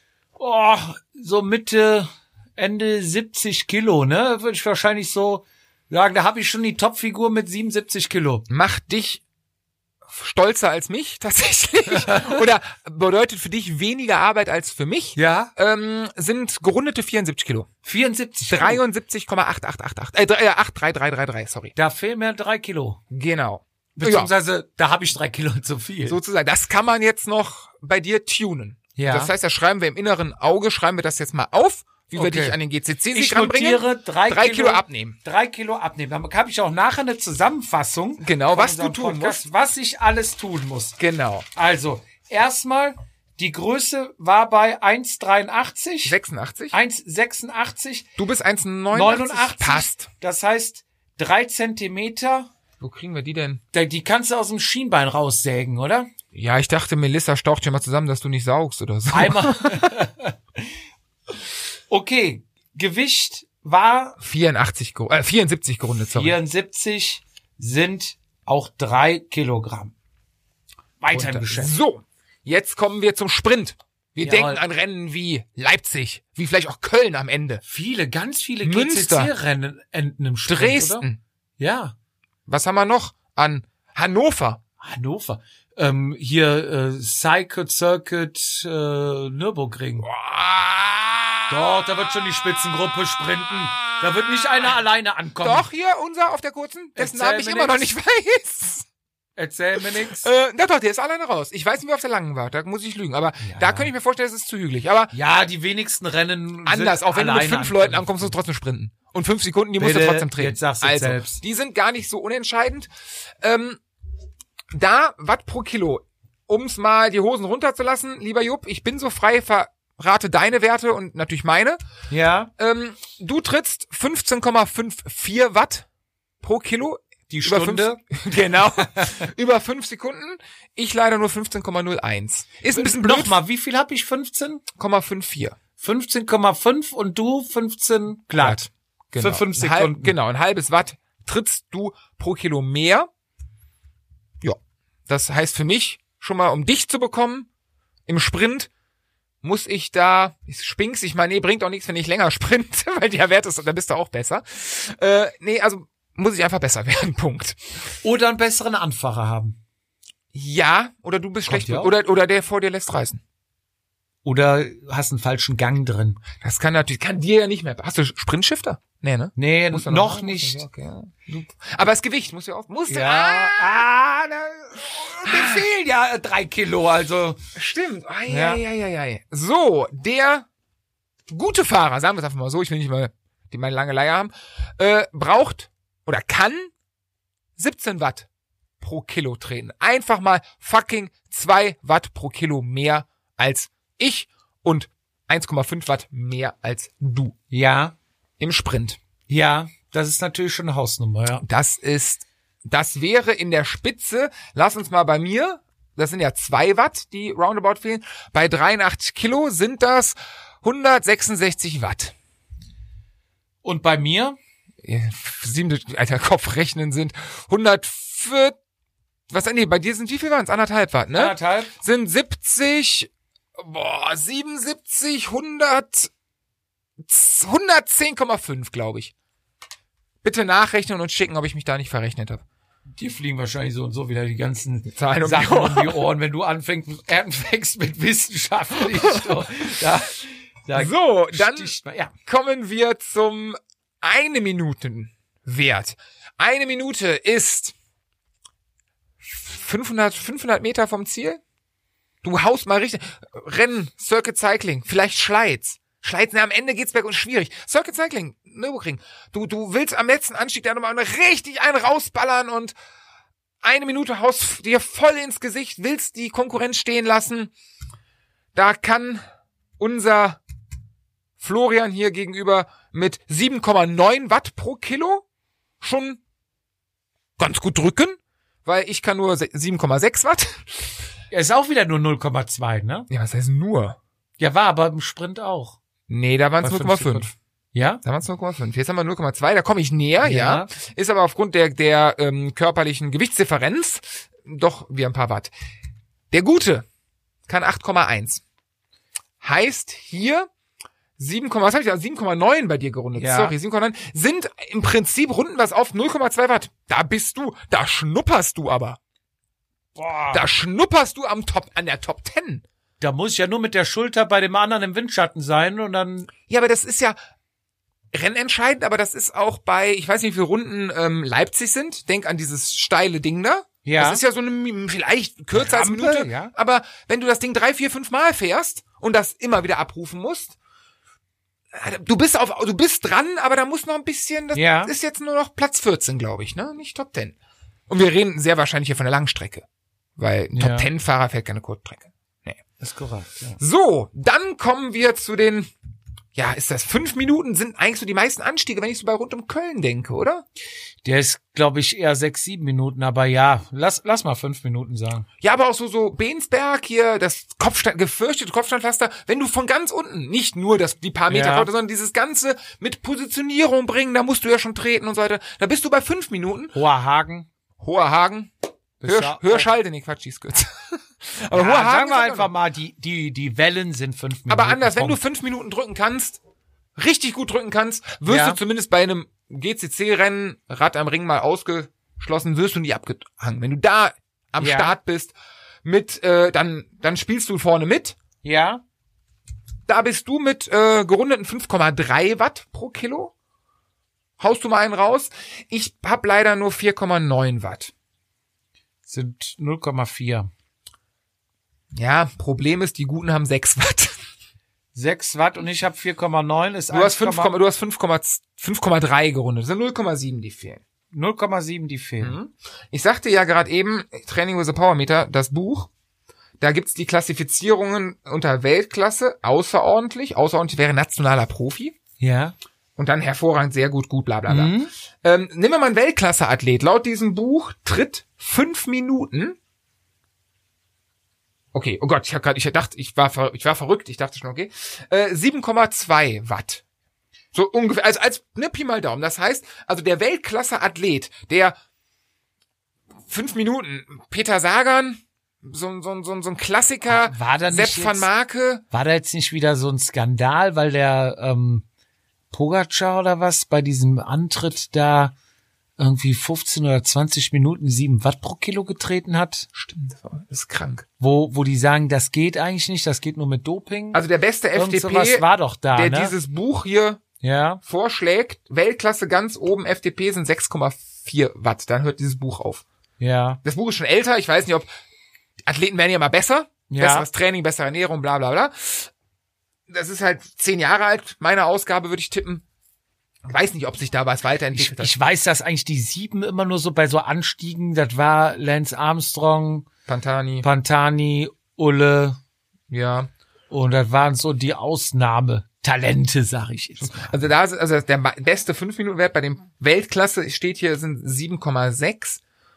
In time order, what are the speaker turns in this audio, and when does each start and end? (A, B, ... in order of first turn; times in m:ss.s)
0:00.4-0:08.5 A
0:08.5-0:09.2 B
0:10.1-0:17.7 B
0:11.9-0:12.4 A
0:15.2-0:15.5 A
0:17.8-0:18.8 A
0:18.5-0:21.7 B
0:21.8-0:23.0 A
0:23.1-0:24.3 B
0:24.0-0:26.2 A
0:26.1-0:35.2 B
0:29.0-0:29.3 A
0:32.1-0:32.6 A
0:33.1-0:41.0 A
0:38.2-0:39.4 B
0:41.0-0:41.5 B
0:41.5-0:46.2 A
0:46.0-0:46.8 B
0:46.7-0:48.1 A
0:48.2-0:50.1 B
0:48.9-0:52.5 A
0:52.8-0:53.6 B
0:53.7-0:56.1 A
0:56.3-0:59.9 B
0:59.1-1:00.7 A
1:01.9-1:04.2 A
1:04.2-1:06.4 B
1:06.1-1:09.9 A
1:11.0-1:11.8 A
1:11.1-1:17.6 B
1:14.2-1:14.6 A
1:17.6-1:21.1 A
1:18.6-1:19.3 B
1:20.5-1:21.2 B
1:21.6-1:21.9 A
1:22.5-1:24.6 B
1:24.8-1:30.1 A
1:30.0-1:31.6 B
1:31.5-1:35.7 A
1:35.4-1:38.9 B
1:37.0-1:37.9 A
1:39.4-1:40.3 A
1:39.8-1:45.1 B
1:43.4-1:43.9 A
1:45.1-1:48.3 A
1:46.6-1:53.8 B
1:49.8-1:51.4 A
1:54.7-2:01.8 B
2:02.1-2:02.5 A
2:02.6-2:05.9 B
2:06.4-2:13.4 B
2:07.3-2:08.0 A
2:08.6-2:09.3 A
2:12.7-2:14.6 A
2:14.8-2:15.6 B
2:15.8-2:18.6 A
2:18.4-2:23.1 B
2:19.2-2:20.1 A
2:24.4-2:27.5 B
2:28.1-2:28.7 B
2:29.4-2:37.6 B
2:38.0-2:39.6 A
2:40.3-2:43.2 B
2:41.5-2:41.9 A
2:44.2-2:46.2 A
2:46.4-2:53.9 B
2:49.4-2:50.6 A
2:52.9-2:57.4 A
2:55.2-2:55.6 B
2:57.6-3:00.5 B
2:58.3-2:58.6 A
3:01.3-3:06.7 B
3:07.6-3:08.3 B
3:08.8-3:17.4 B
3:17.5-3:18.0 A
3:18.4-3:19.0 B
3:19.3-3:21.4 A
3:21.4-3:32.1 B
3:33.6-3:34.4 A
3:34.8-3:38.6 B
3:39.3-3:46.1 B
3:41.1-3:41.7 A
3:47.0-3:49.1 B
3:50.2-3:52.4 B
3:53.0-4:02.1 A
3:54.9-3:56.0 B
3:58.9-3:59.4 B
4:00.8-4:07.7 B
4:09.2-4:11.4 B
4:12.2-4:22.8 B
4:23.6-4:27.5 B
4:28.5-4:29.2 B
4:29.8-4:30.4 B
4:31.4-4:35.2 B
4:35.8-4:36.2 B
4:37.4-4:40.9 B
4:41.3-4:43.1 A
4:43.1-4:44.0 B
4:44.4-4:45.8 A
4:46.1-4:47.3 B
4:46.6-4:48.0 A
4:48.0-4:55.5 B
4:50.2-4:50.7 A
4:56.3-4:56.9 B
4:57.5-4:58.4 B
4:59.4-5:00.5 B
5:01.2-5:09.0 B
5:03.2-5:03.5 A
5:09.9-5:10.5 A
5:10.3-5:12.6 B
5:13.0-5:16.3 A
5:16.5-5:17.2 B
5:18.1-5:30.5 B
5:23.8-5:24.2 A
5:25.5-5:26.5 A
5:31.7-5:37.4 B
5:34.5-5:34.9 A
5:37.9-5:39.6 B
5:40.2-5:42.6 B
5:40.6-5:40.9 A
5:42.8-5:43.6 A
5:43.6-5:45.7 B
5:46.4-5:50.4 B
5:51.0-5:55.2 A
5:55.4-6:06.8 B
6:01.3-6:01.7 A
6:06.7-6:07.5 A
6:07.8-6:08.5 B
6:09.0-6:09.7 A
6:09.0-6:12.5 B
6:11.5-6:15.2 A
6:14.5-6:16.4 B
6:17.0-6:28.2 B
6:18.3-6:18.6 A
6:24.6-6:25.0 A
6:28.4-6:28.8 A
6:29.9-6:33.3 B
6:34.4-6:37.9 B
6:39.1-6:40.5 A
6:41.9-6:44.2 B
6:44.9-6:47.5 A
6:46.9-6:50.8 B
6:51.1-6:52.4 A
6:52.2-6:55.9 B
6:56.6-7:02.0 B
7:02.2-7:02.5 A
7:03.0-7:09.6 B
7:04.5-7:04.9 A
7:11.7-7:16.8 B
7:17.5-7:21.8 B
7:23.3-7:28.8 B
7:27.1-7:28.3 A
7:28.9-7:31.8 A
7:32.5-7:35.3 A
7:36.0-7:39.7 A
7:39.8-7:41.0 B
7:41.2-7:44.2 A
7:44.1-7:47.2 B
7:44.8-7:46.4 A
7:47.4-7:47.8 A
7:47.9-7:52.8 B
7:53.2-7:53.6 A
7:53.6-7:54.9 B
7:55.6-7:59.1 B
7:56.9-7:57.3 A
7:59.9-8:02.6 B
8:03.5-8:05.1 B
8:04.7-8:09.9 A
8:10.1-8:10.7 B
8:10.6-8:12.4 A
8:12.9-8:13.3 B
8:13.7-8:17.3 A
8:17.0-8:22.4 B